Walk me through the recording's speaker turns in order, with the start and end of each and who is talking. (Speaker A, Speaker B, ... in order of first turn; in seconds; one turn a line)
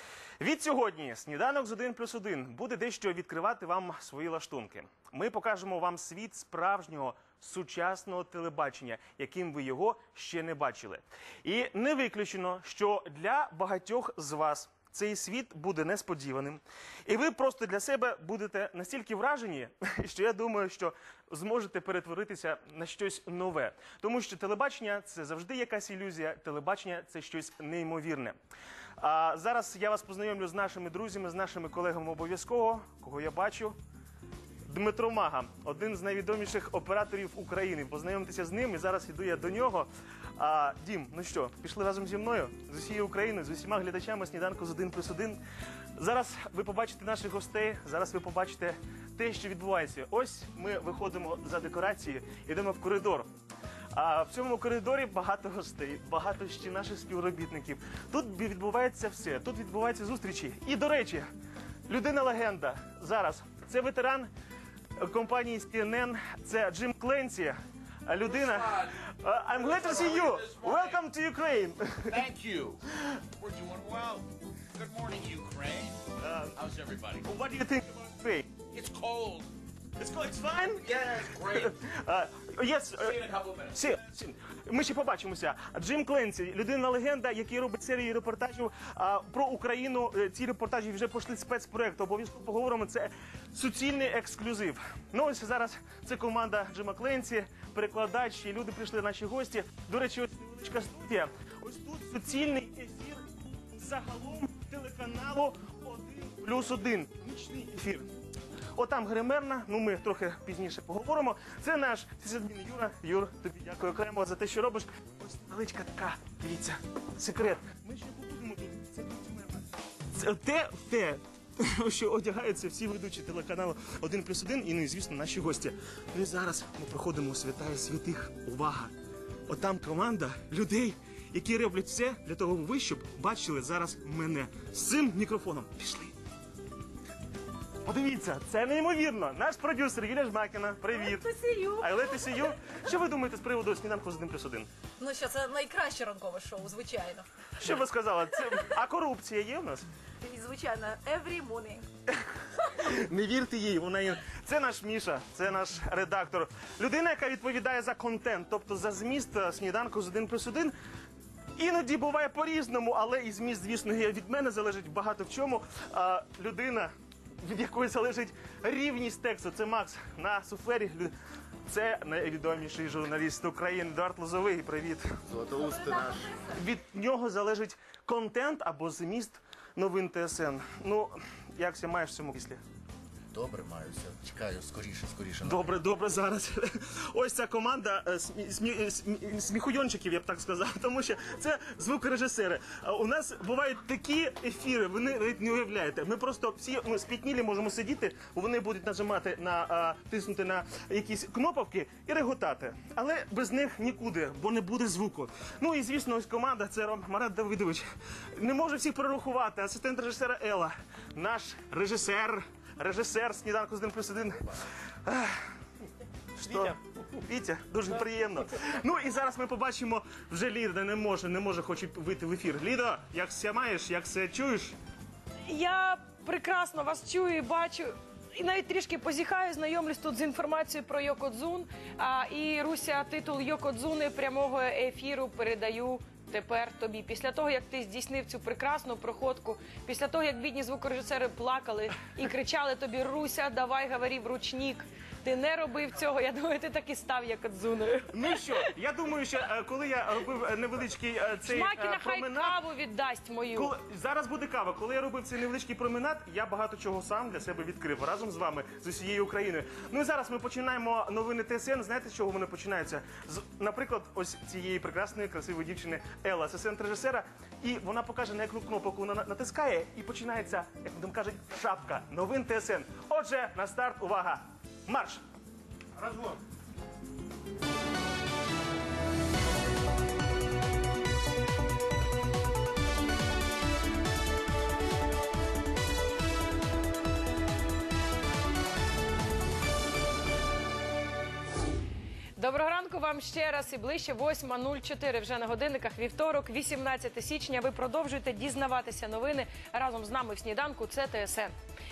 Speaker A: 0.4-28.4
Speaker A: 29.0-33.8
Speaker A: 34.7-45.4
Speaker A: 46.0-53.3
Speaker A: 53.9-61.3
Speaker A: 61.9-64.3
Speaker A: 65.0-72.2
Speaker B: 70.0-70.8
Speaker B: 72.1-72.4
Speaker B: 73.4-74.2
Speaker B: 74.8-75.8
Speaker A: 76.2-76.5
Speaker A: 77.2-78.5
Speaker B: 78.8-79.5
Speaker A: 80.0-108.1
Speaker B: 80.9-81.6
Speaker A: 108.7-128.9
Speaker A: 129.5-136.2
Speaker A: 137.8-144.7
Speaker C: 141.0-142.0
Speaker C: 145.0-147.3
Speaker A: 147.6-149.9
Speaker C: 150.2-151.8
Speaker A: 152.1-160.7
Speaker A: 161.6-171.1
Speaker A: 171.7-175.1
Speaker D: 175.3-175.7
Speaker C: 175.5-176.4
Speaker A: 176.4-182.6
Speaker D: 183.3-185.8
Speaker A: 185.4-214.5
Speaker A: 215.0-215.5
Speaker A: 216.4-224.8
Speaker E: 225.4-248.5
Speaker A: 248.1-252.6
Speaker E: 251.4-253.7
Speaker A: 253.5-275.2
Speaker E: 292.4-301.5